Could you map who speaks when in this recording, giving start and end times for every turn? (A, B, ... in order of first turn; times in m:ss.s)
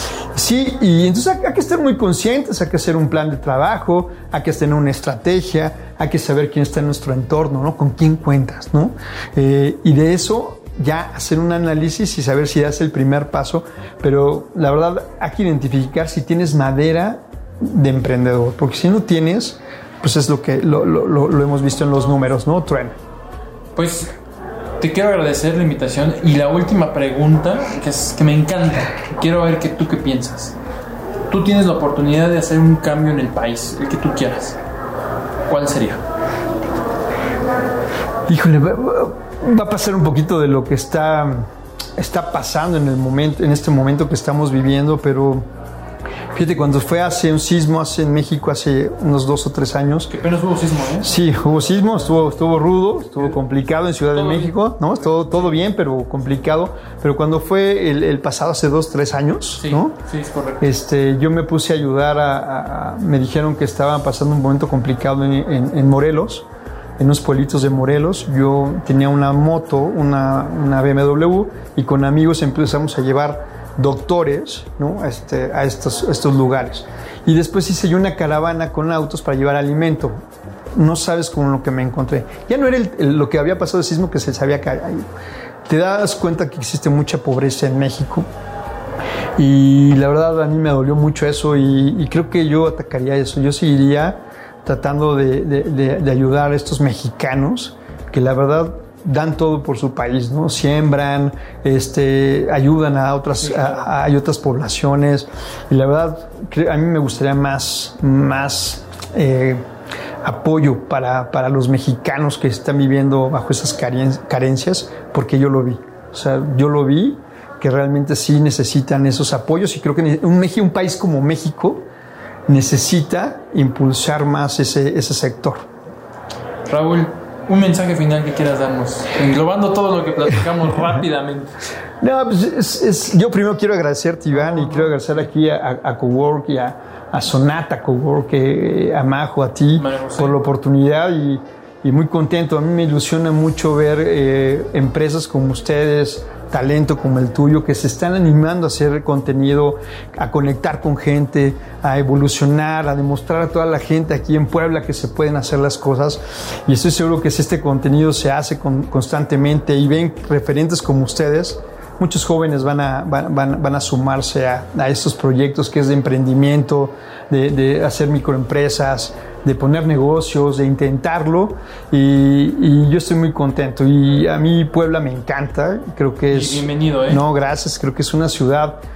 0:00.3-0:23.0 A
0:23.7-0:24.1 B
0:24.8-0:30.6 B
0:31.3-0:34.6 B
0:35.5-0:36.0 B
0:38.3-0:45.5 A
0:46.3-0:50.1 A
0:50.1-0:51.1 B
0:51.0-1:00.0 A
0:54.1-0:54.6 B
0:55.1-0:55.5 B
0:59.6-1:00.7 B
1:00.6-1:06.4 A
1:07.0-1:20.2 A
1:20.7-1:25.0 A
1:25.7-1:28.2 A
1:29.4-1:49.6 A
1:43.5-1:43.8 B
1:50.2-2:01.8 A
2:02.5-2:05.7 A
2:06.7-2:11.6 B
2:12.0-2:58.8 A
2:14.4-2:14.9 B
2:19.8-2:20.4 B
2:56.3-2:57.2 B